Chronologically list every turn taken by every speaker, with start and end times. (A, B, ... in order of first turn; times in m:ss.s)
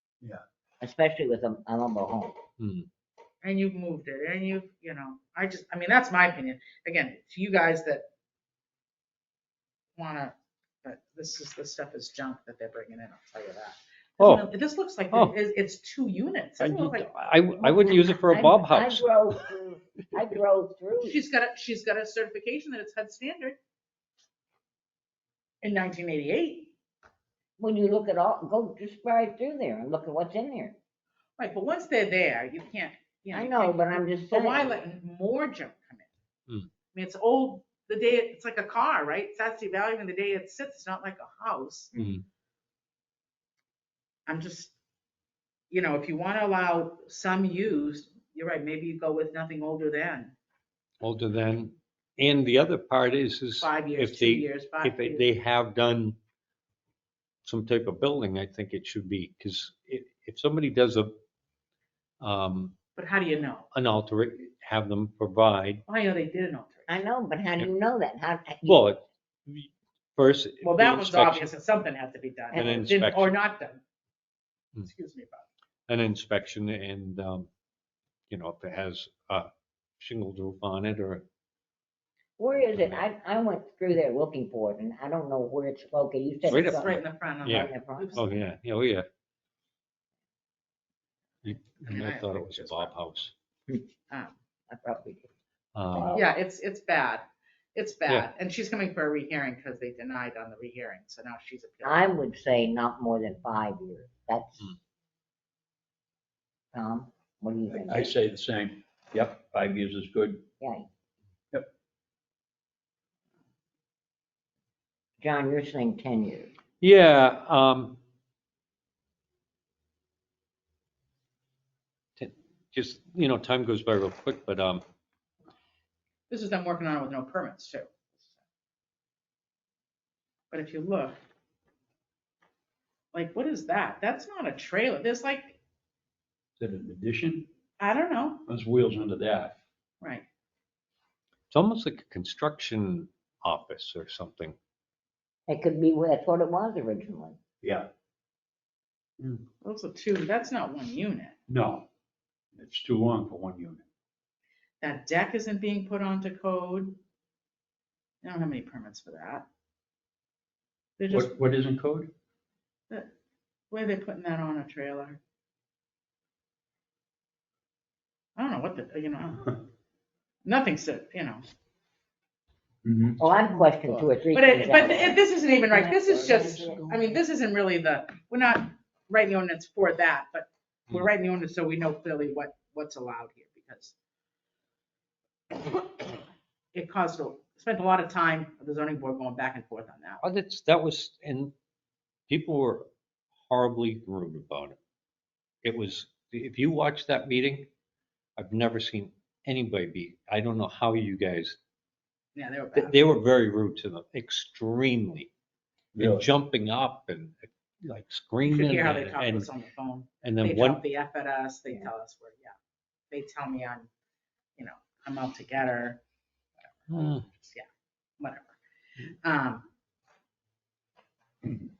0:00.8-0:02.4 A
0:02.6-0:02.9 B
0:03.4-0:08.0 C
0:10.0-0:17.2 C
0:14.2-0:14.5 B
0:16.6-0:19.1 B
0:17.6-0:21.2 A
0:21.0-0:23.6 C
0:25.6-0:26.7 C
0:27.6-0:30.8 A
0:31.4-0:36.1 C
0:33.3-0:34.8 A
0:36.9-0:41.9 C
0:41.9-0:42.2 B
0:44.3-0:44.7 C
0:45.7-0:50.3 C
0:51.0-0:56.2 B
0:53.6-0:55.3 C
0:57.4-1:01.2 B
1:02.2-1:02.7 B
1:03.0-1:03.7 C
1:03.7-1:05.8 B
1:05.9-1:07.0 C
1:06.9-1:08.9 A
1:08.6-1:11.5 B
1:10.6-1:13.8 C
1:12.5-1:12.8 A
1:12.5-1:13.4 B
1:14.8-1:15.5 C
1:15.9-1:17.5 B
1:18.3-1:21.2 B
1:22.4-1:28.2 A
1:22.7-1:23.0 B
1:26.4-1:28.4 C
1:26.5-1:29.0 B
1:31.4-1:33.3 B
1:31.5-1:33.0 C
1:34.1-1:34.4 C
1:34.7-1:35.3 A
1:35.7-1:36.2 B
1:35.9-1:36.2 D
1:36.1-1:42.1 C
1:41.8-1:44.7 A
1:46.7-1:48.1 A
1:47.7-1:50.4 D
1:50.6-1:50.8 A
1:55.2-1:56.5 A
1:56.8-1:58.0 B
2:02.2-2:04.8 B
2:06.3-2:08.3 C
2:10.5-2:11.2 C
2:13.1-2:15.6 C
2:16.6-2:17.5 D
2:17.8-2:18.4 C
2:18.5-2:19.6 D
2:20.0-2:20.2 C
2:21.5-2:24.6 B
2:25.5-2:27.4 A
2:27.6-2:27.9 D
2:29.2-2:29.4 D
2:29.6-2:31.4 C
2:31.5-2:31.9 D
2:32.5-2:33.8 D
2:34.8-2:37.0 C
2:38.2-2:39.4 C
2:41.0-2:41.3 C
2:41.1-2:42.1 D
2:43.7-2:45.2 C
2:48.4-2:49.6 C
2:50.4-2:51.4 C
2:52.8-2:53.2 D
2:53.2-2:57.0 A
2:53.6-3:03.9 C
3:06.7-3:10.2 C
3:10.2-3:11.5 B
3:12.3-3:12.9 B
3:13.5-3:14.8 B
3:15.6-3:17.7 B
3:18.4-3:21.6 B
3:22.4-3:23.0 C
3:22.7-3:25.3 B
3:26.0-3:26.3 D
3:26.0-3:29.5 B
3:28.4-3:32.5 C
3:30.2-3:30.8 B
3:33.1-3:33.9 C
3:34.6-3:36.0 C
3:36.8-3:37.7 C
3:36.9-3:37.2 B
3:38.2-3:38.6 C
3:39.2-3:39.7 C